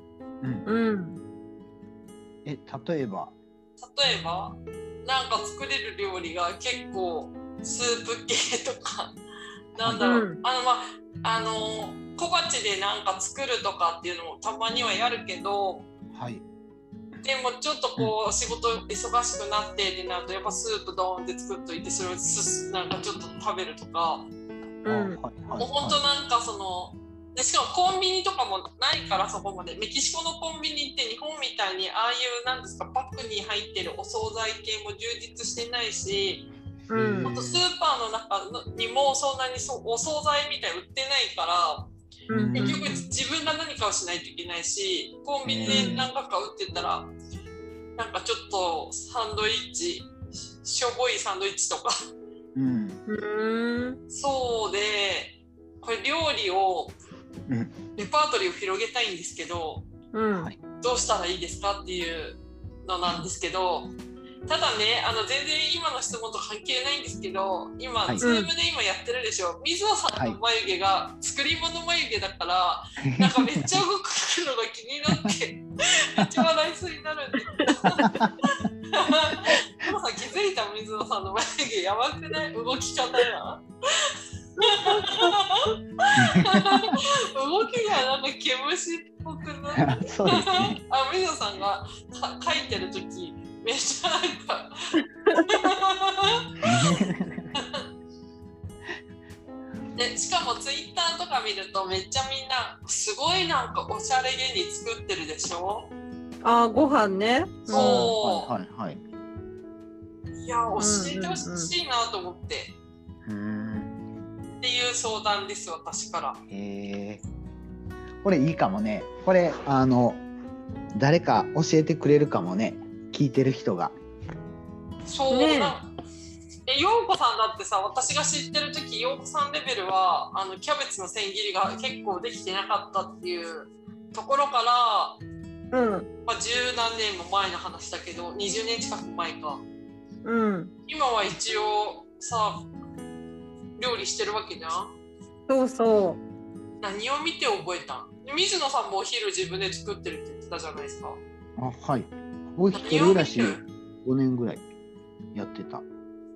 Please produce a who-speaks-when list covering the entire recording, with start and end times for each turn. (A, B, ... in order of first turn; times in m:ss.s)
0:00.4-0:00.6 A
0:00.6-0:01.2 B
0:02.4-0:03.3 A
0:03.8-0:09.2 C
0:09.7-0:15.9 C
0:09.8-0:10.0 A
0:10.0-0:10.4 B
0:16.1-0:16.4 A
0:17.2-0:24.3 C
0:24.8-0:25.2 B
0:24.8-0:26.0 A
0:25.6-0:36.5 C
0:36.9-0:37.3 B
0:36.9-0:37.6 A
0:37.2-0:41.9 C
0:42.3-0:42.9 B
0:42.3-0:43.0 A
0:42.6-0:47.1 C
0:45.4-0:46.1 A
0:45.7-0:46.0 B
0:48.0-0:52.1 C
0:52.5-0:53.0 A
0:53.1-0:54.0 B
0:54.1-0:57.0 C
0:57.5-0:57.8 A
0:58.0-0:59.8 C
1:00.1-1:00.5 B
1:00.8-1:03.9 C
1:04.5-1:37.0 C
1:08.2-1:08.5 B
1:13.0-1:13.8 A
1:16.2-1:16.5 A
1:18.0-1:18.3 A
1:24.6-1:25.3 B
1:26.2-1:26.9 A
1:29.7-1:30.8 A
1:36.6-1:37.5 A
1:37.6-1:37.8 C
1:40.0-1:45.9 C
1:46.4-1:48.1 B
1:47.7-1:48.5 C
1:47.7-1:49.0 A
1:50.4-1:52.7 C
1:50.8-1:51.7 B
1:53.2-1:53.9 A
1:54.6-1:56.4 C
1:56.5-1:57.2 A
1:58.2-2:00.2 A
2:00.9-2:03.9 A
2:05.1-2:05.9 C
2:05.3-2:05.8 B
2:06.7-2:15.2 C
2:15.7-2:16.1 B
2:16.2-2:19.6 C
2:20.2-2:20.7 B
2:20.9-2:22.7 C
2:23.8-2:24.9 C
2:25.5-2:26.2 B
2:26.8-2:31.2 C
2:31.6-2:34.6 A
2:32.7-2:33.6 C
2:35.3-2:35.8 A